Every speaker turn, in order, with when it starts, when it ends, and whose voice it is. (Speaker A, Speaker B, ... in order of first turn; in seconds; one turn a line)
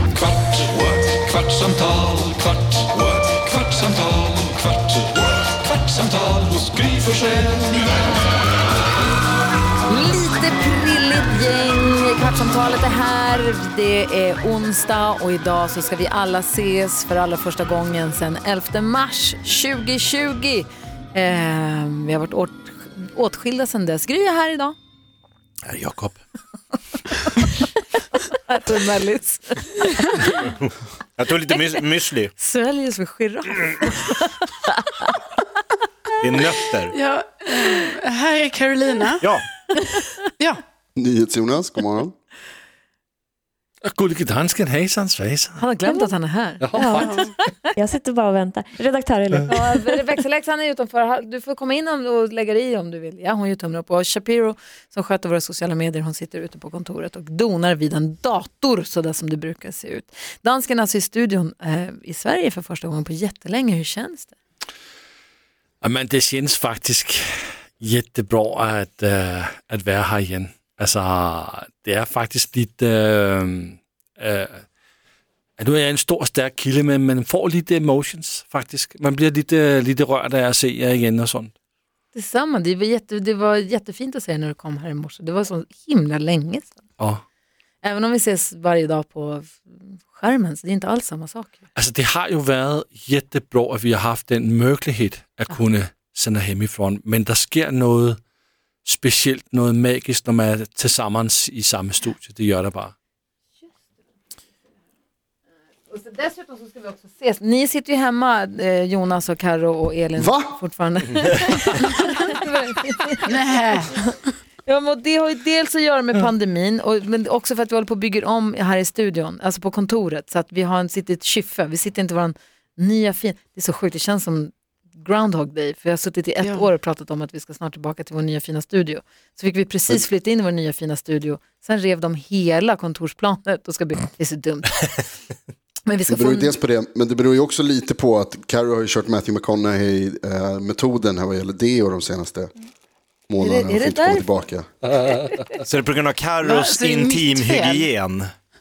Speaker A: 0.7-2.1
Speaker A: 2.8-4.0
Speaker B: 6.5-7.8
Speaker C: 9.9-24.8
Speaker D: 25.6-26.2
Speaker C: 28.3-30.4
Speaker D: 31.2-32.3
Speaker C: 32.4-35.1
Speaker D: 36.2-37.0
Speaker E: 36.9-39.3
Speaker F: 41.0-42.1
Speaker B: 43.8-45.7
Speaker C: 45.6-47.6
Speaker B: 46.6-47.3
Speaker E: 47.0-47.2
Speaker G: 47.8-50.0
Speaker C: 49.5-64.3
Speaker B: 65.8-67.2
Speaker B: 67.8-74.6
Speaker B: 75.6-81.5
Speaker C: 82.1-86.8
Speaker C: 87.8-91.6
Speaker B: 91.7-98.2
Speaker B: 98.8-102.9
Speaker C: 105.9-114.0
Speaker F: 110.2-110.5
Speaker E: 113.3-114.3
Speaker C: 114.6-134.8
Speaker E: 126.4-126.7
Speaker C: 135.8-136.6
Speaker F: 136.1-142.5
Speaker F: 143.3-144.7
Speaker C: 143.4-144.3
Speaker B: 144.9-145.6
Speaker D: 145.7-148.3
Speaker E: 146.4-147.9